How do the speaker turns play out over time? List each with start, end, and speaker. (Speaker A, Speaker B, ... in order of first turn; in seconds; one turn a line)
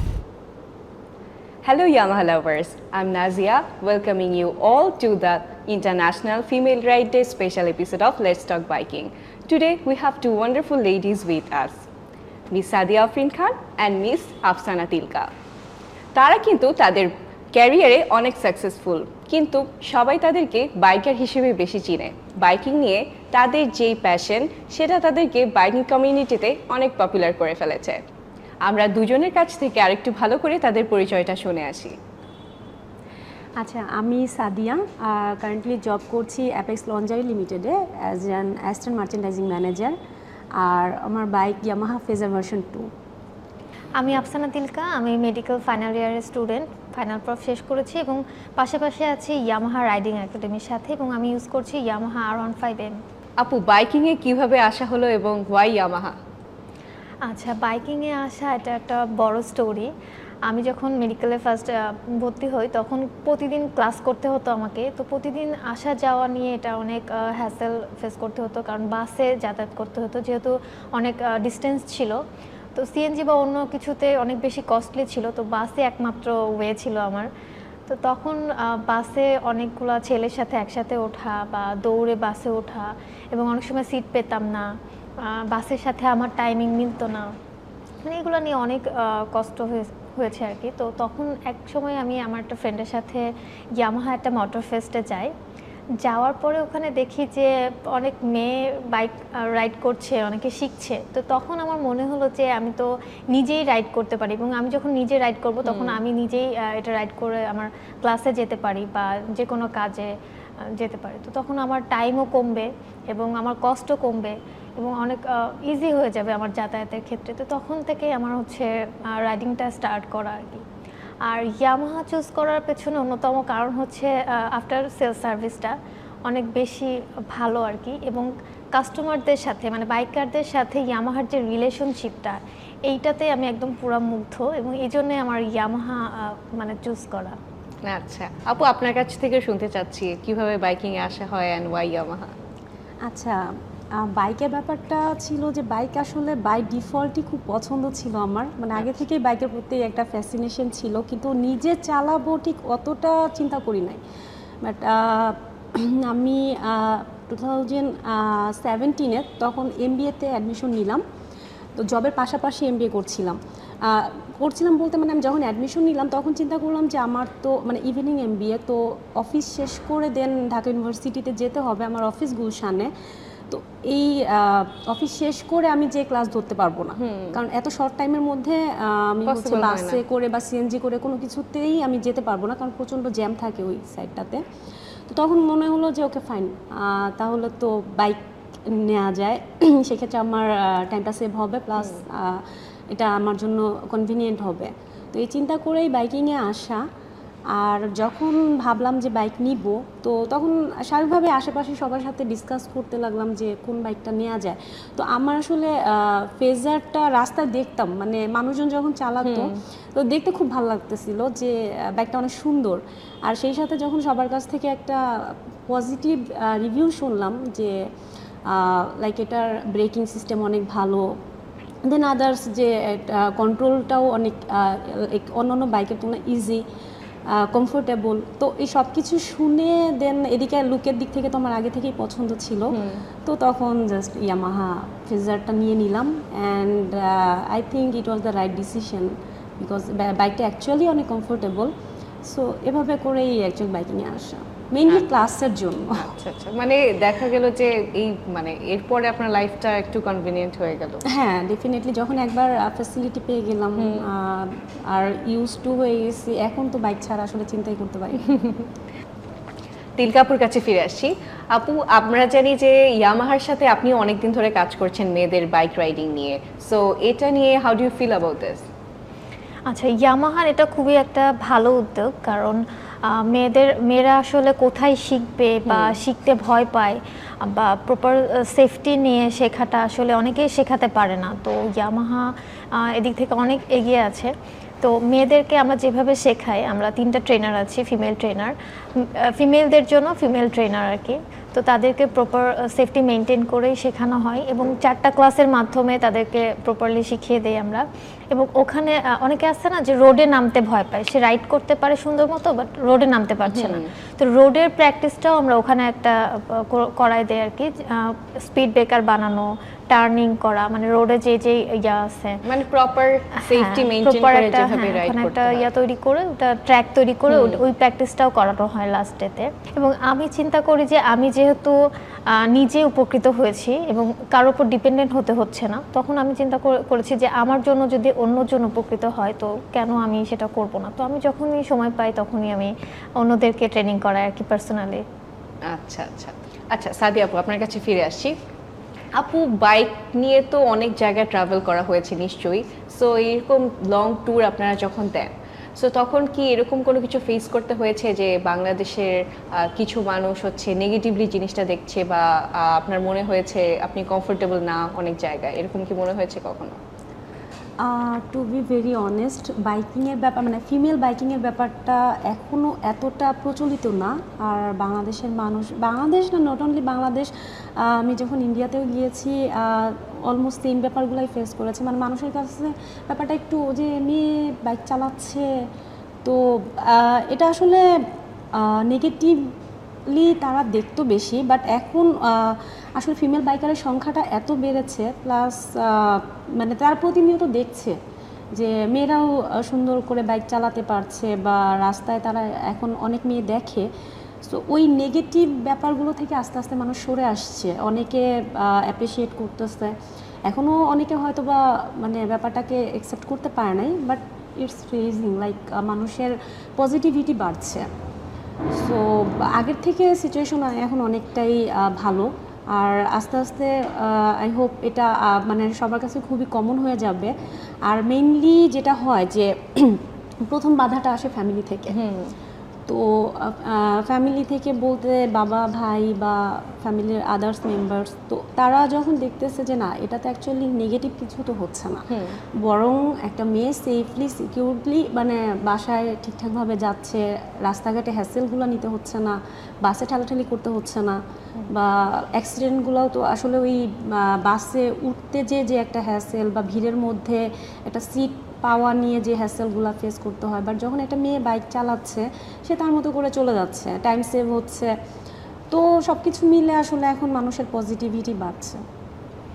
Speaker A: 1.6-11.8
Speaker A: 12.5-15.3
Speaker A: 16.1-28.0
Speaker A: 28.7-31.9
Speaker B: 33.6-39.9
Speaker B: 40.6-42.9
Speaker C: 44.0-53.0
Speaker A: 53.4-56.1
Speaker C: 57.2-59.9
Speaker C: 60.5-72.2
Speaker C: 72.7-77.3
Speaker C: 77.9-84.7
Speaker C: 85.2-87.3
Speaker C: 88.0-95.3
Speaker C: 96.0-120.6
Speaker A: 105.7-106.0
Speaker C: 121.2-125.7
Speaker C: 126.2-137.3
Speaker A: 137.8-142.3
Speaker B: 143.1-143.4
Speaker B: 144.0-154.0
Speaker B: 154.6-161.0
Speaker B: 161.8-172.9
Speaker B: 173.5-184.4
Speaker A: 177.0-177.4
Speaker A: 179.2-180.0
Speaker B: 185.1-196.8
Speaker B: 197.5-215.0
Speaker A: 209.2-209.5
Speaker B: 215.7-217.8
Speaker B: 218.5-221.1
Speaker B: 221.8-226.6
Speaker B: 227.3-241.7
Speaker A: 232.7-233.0
Speaker B: 242.2-246.1
Speaker A: 246.0-251.0
Speaker B: 251.1-258.3
Speaker A: 253.8-254.1
Speaker A: 260.0-268.6
Speaker C: 269.7-312.4
Speaker A: 275.6-276.0
Speaker A: 303.5-303.9
Speaker A: 312.4-315.7
Speaker C: 313.4-321.8
Speaker A: 317.3-317.6
Speaker C: 322.3-335.0
Speaker A: 335.7-338.3
Speaker A: 339.2-356.8
Speaker B: 357.8-367.3
Speaker B: 367.8-375.5
Speaker B: 376.2-377.8
Speaker B: 378.6-379.4
Speaker B: 380.1-388.0
Speaker B: 388.6-393.9
Speaker B: 394.4-399.9
Speaker B: 400.5-407.9
Speaker B: 408.8-417.3
Speaker B: 417.9-421.9
Speaker A: 421.9-422.3
Speaker B: 422.9-432.1
Speaker A: 432.1-432.4
Speaker B: 432.6-454.9
Speaker B: 455.7-458.8